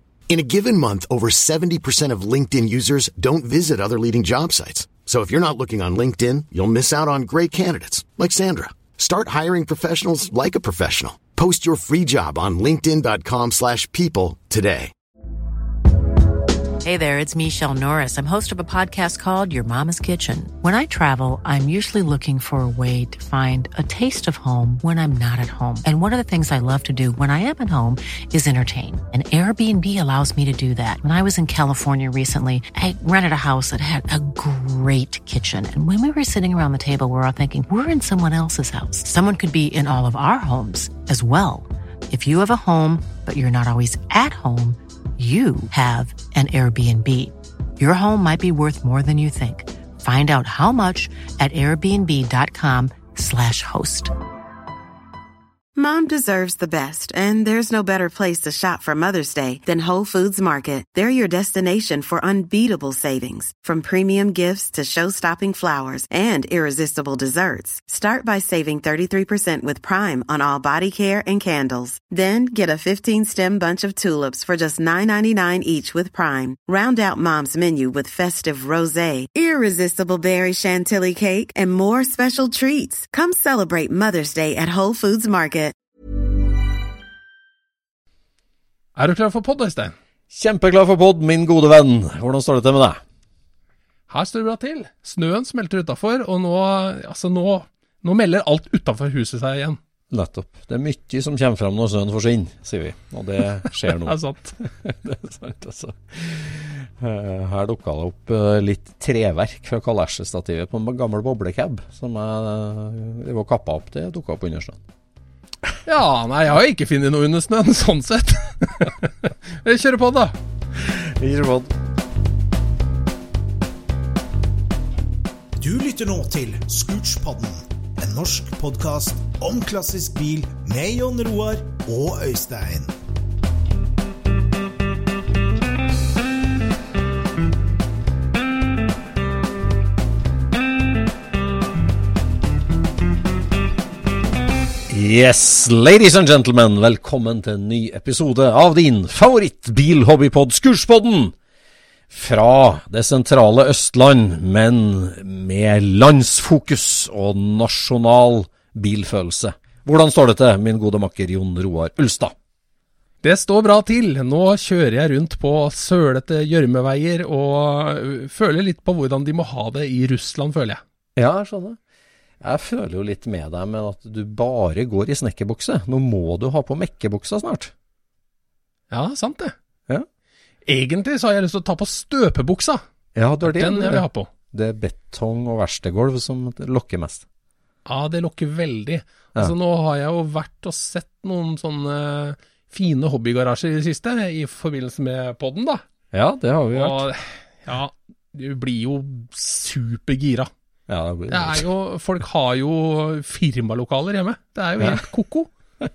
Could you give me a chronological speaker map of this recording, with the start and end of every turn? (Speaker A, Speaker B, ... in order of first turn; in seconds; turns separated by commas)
Speaker A: 0.3-14.9, Speaker B: 16.8-54.1, Speaker C: 55.8-85.8, Speaker D: 89.0-90.0, Speaker E: 90.3-93.0, Speaker D: 94.1-99.8, Speaker E: 100.1-114.8, Speaker D: 103.9-104.6, Speaker D: 115.9-120.4, Speaker E: 120.8-121.7, Speaker F: 125.6-132.9, Speaker E: 144.9-151.4, Speaker E: 152.1-162.3, Speaker D: 163.2-170.8, Speaker E: 171.2-171.8, Speaker E: 172.4-177.7, Speaker D: 178.9-179.6, Speaker D: 180.7-182.8, Speaker E: 183.1-187.2, Speaker D: 183.4-184.3, Speaker D: 187.9-195.8, Speaker E: 196.1-197.1, Speaker D: 196.7-200.5, Speaker E: 200.9-201.7, Speaker D: 201.3-205.5